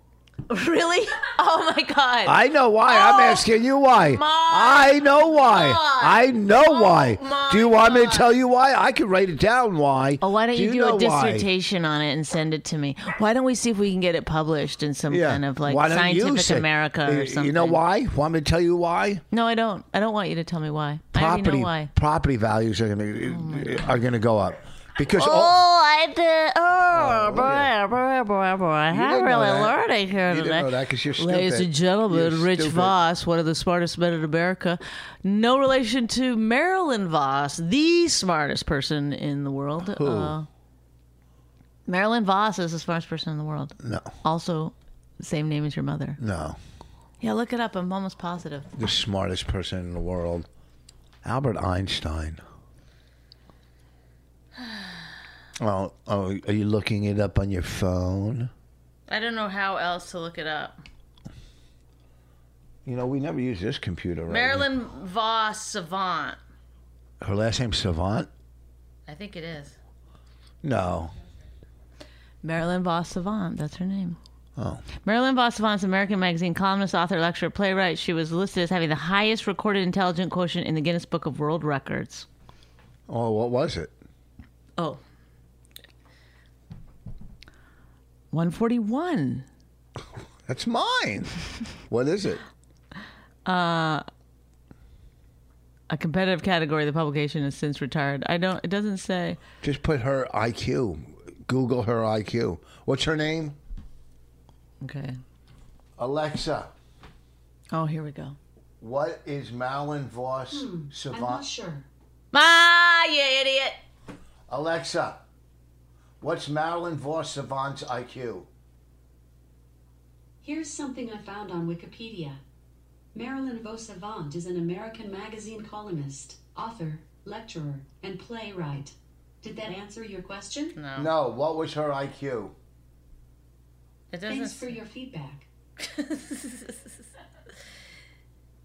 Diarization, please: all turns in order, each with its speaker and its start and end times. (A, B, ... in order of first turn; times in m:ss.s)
0:00.5-0:08.3 A
0:02.2-0:11.5 B
0:10.2-0:17.8 A
0:15.1-0:19.2 B
0:19.3-0:21.9 A
0:21.1-0:25.6 B
0:23.3-0:24.0 A
0:25.1-0:40.5 A
0:26.9-0:27.7 B
0:28.9-0:33.0 B
0:39.9-0:40.4 B
0:41.9-0:46.2 A
0:43.8-0:44.1 B
0:46.2-0:46.6 B
0:47.2-0:48.7 A
0:48.8-0:50.5 B
0:51.2-0:52.4 B
0:55.6-0:58.5 B
0:59.1-1:00.8 A
1:02.8-1:04.7 B
1:04.3-1:06.4 A
1:07.2-1:08.3 B
1:09.1-1:09.8 A
1:10.6-1:11.2 B
1:12.4-1:14.2 A
1:14.6-1:14.8 B
1:15.0-1:22.3 A
1:23.1-1:23.9 B
1:28.3-1:29.5 A
1:30.5-1:32.4 B
1:33.5-1:34.0 A
1:35.9-1:39.4 A
1:39.6-1:43.6 B
1:44.8-1:45.2 A
1:46.0-1:46.7 B
1:47.7-1:48.4 A
1:48.8-1:51.4 B
1:50.5-1:51.9 C
1:52.3-1:53.8 A
1:54.5-1:55.2 B
1:56.2-1:58.5 B
2:00.4-2:02.4 C
2:03.1-2:10.8 C
2:10.8-2:11.1 A
2:11.0-2:12.5 B
2:14.1-2:14.8 A
2:14.3-2:15.5 C
2:15.8-2:16.9 A